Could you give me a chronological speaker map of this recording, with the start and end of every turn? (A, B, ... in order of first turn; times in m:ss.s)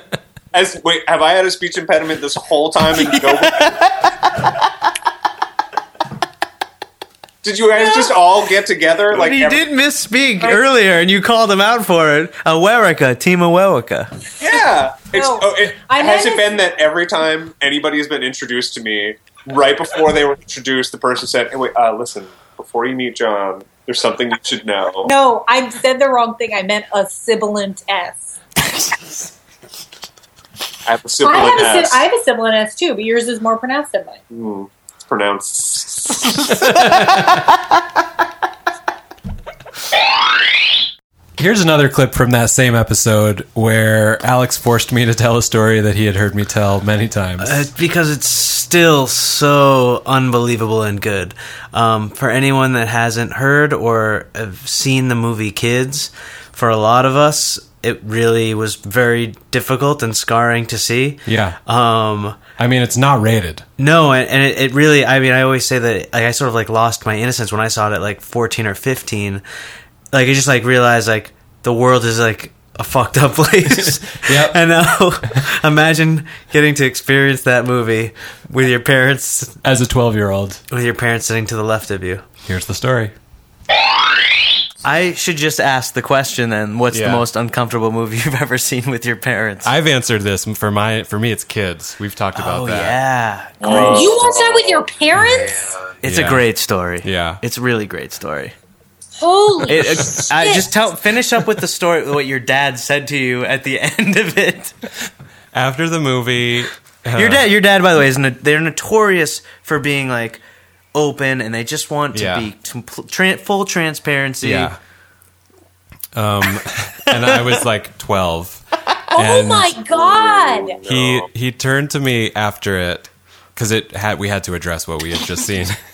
0:00.5-0:03.8 A
0:03.1-0:04.1 B
0:07.4-0:09.7 A
0:09.1-0:14.1 B
0:14.4-0:25.1 A
0:15.1-0:16.6 C
0:25.0-0:28.3 C
0:30.9-0:32.0 A
0:31.2-0:34.2 C
0:34.3-0:36.5 A
0:41.4-0:47.7 D
0:47.4-1:02.4 B
1:01.3-1:01.6 D
1:02.6-1:03.6 D
1:03.8-1:09.4 B
1:10.1-1:19.6 B
1:14.2-1:14.6 D
1:19.6-1:20.6 D
1:20.7-1:22.2 B
1:22.4-1:23.1 D
1:24.8-1:29.7 B
1:26.9-1:27.2 D
1:29.6-1:33.0 D
1:32.3-1:34.3 B
1:33.6-1:35.6 C
1:33.6-1:34.0 A
1:36.0-1:38.5 B
1:36.0-1:36.5 D
1:37.0-1:37.4 D
1:39.2-1:40.7 C
1:39.7-1:44.7 B
1:45.5-1:47.5 D
1:47.2-1:50.4 B
1:50.9-1:54.7 B
1:52.1-1:52.4 D
1:54.4-1:54.8 D
1:56.2-1:59.7 D
1:59.1-2:00.8 C
1:59.9-2:01.3 A
2:00.8-2:05.8 D